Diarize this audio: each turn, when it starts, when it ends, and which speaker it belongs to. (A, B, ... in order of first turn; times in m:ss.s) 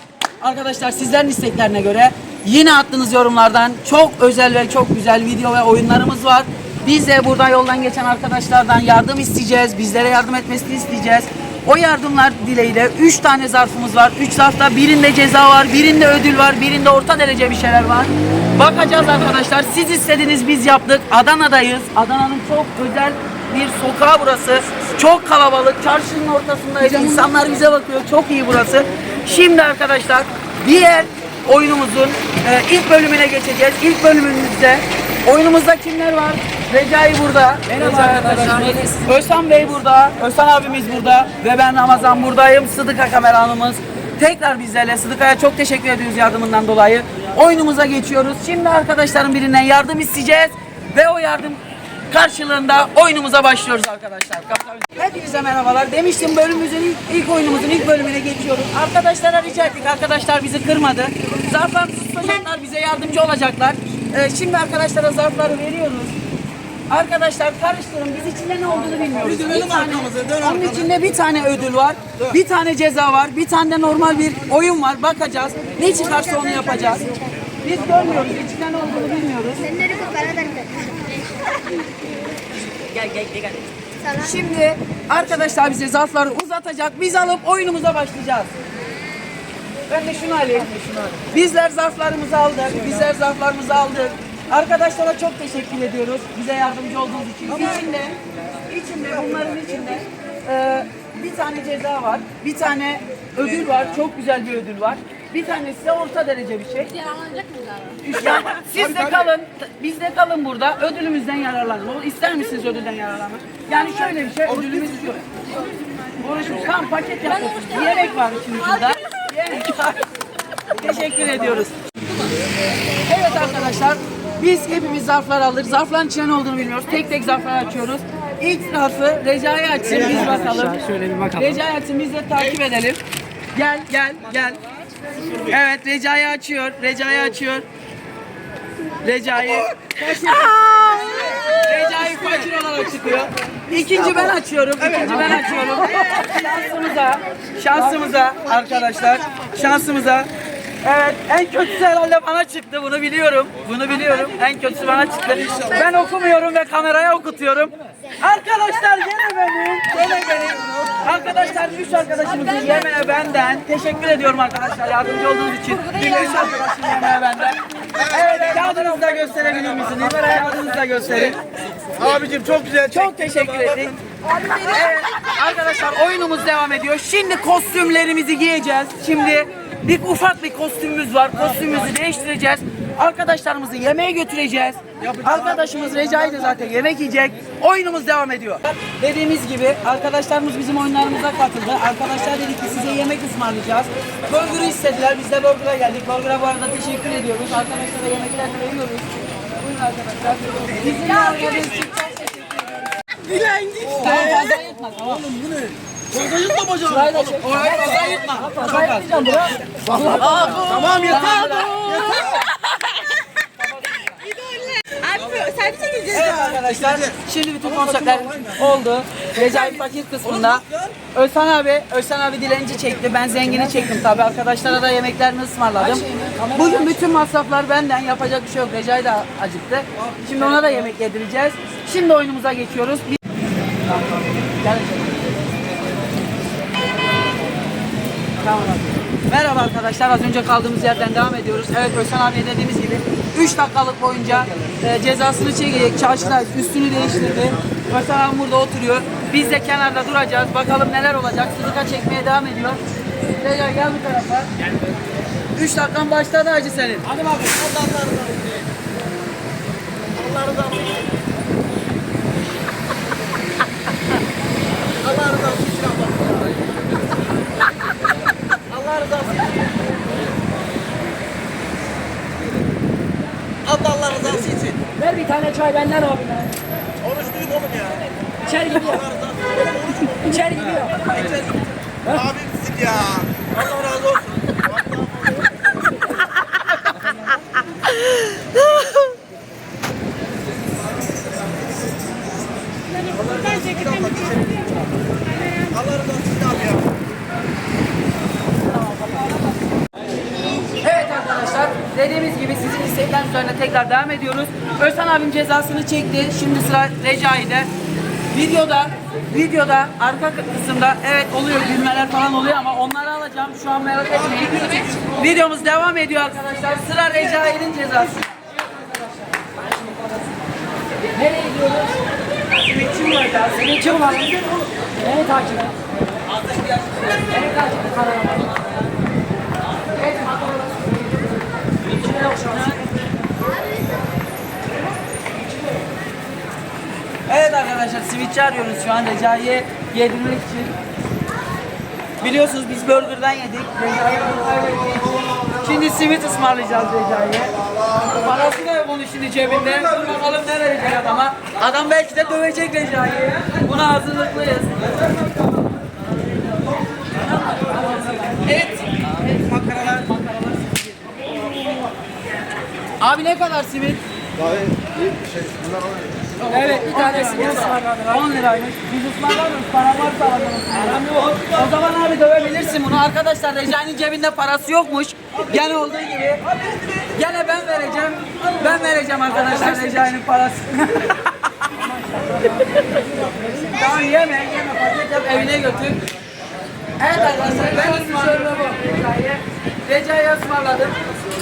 0:00.4-1:06.1 A
0:37.7-0:39.1 B
1:06.9-1:19.9 A
1:09.9-1:10.2 C
1:19.8-1:21.1 D
1:22.9-1:28.5 A
1:29.9-1:47.1 A
1:47.2-1:47.9 B
1:48.0-1:55.4 A
1:56.2-2:00.1 A
2:00.6-2:01.7 A
2:03.0-2:13.0 A
2:10.7-2:11.4 B
2:13.5-2:14.6 A
2:15.3-2:17.6 A
2:19.0-2:30.3 A
2:30.8-2:51.4 A
2:52.0-2:52.8 C
2:52.2-3:22.6 A
3:20.2-3:20.7 B
3:23.2-3:23.9 B
3:23.8-3:25.4 A
3:25.3-3:27.2 C
3:27.0-3:27.3 B
3:27.1-3:32.5 A
3:28.3-3:30.4 B
3:29.8-3:32.4 C
3:34.3-3:36.0 D
3:35.1-3:35.5 C
3:36.1-3:53.2 A
3:46.0-3:46.7 B
3:54.4-3:55.3 A
3:58.4-4:12.8 A
4:13.4-4:14.5 A
4:15.6-4:17.2 A
4:17.3-4:18.5 C
4:20.2-4:21.0 C
4:25.0-4:26.3 C
4:28.7-4:29.5 C
4:33.6-4:34.8 C
4:35.0-4:36.5 B
4:37.0-4:38.0 C
4:38.4-4:39.1 B
4:38.9-4:41.4 C
4:40.2-4:41.3 B
4:42.1-4:45.5 C
4:53.2-4:54.6 C
4:55.6-4:56.8 C
5:00.8-5:07.7 A
5:08.3-5:18.4 A
5:21.1-5:22.0 B
5:22.6-5:24.4 A
5:23.6-5:24.4 B
5:24.9-5:25.8 B
5:26.6-5:27.1 A
5:27.3-5:28.6 B
5:30.0-5:31.0 B
5:32.1-5:32.8 A
5:37.2-5:40.7 A
5:42.2-5:54.9 A
5:57.5-6:00.5 A
6:03.0-6:04.0 A
6:06.4-6:21.7 A
6:06.5-6:08.0 B
6:21.8-6:23.0 B
6:23.7-6:26.0 A
6:27.0-6:31.0 A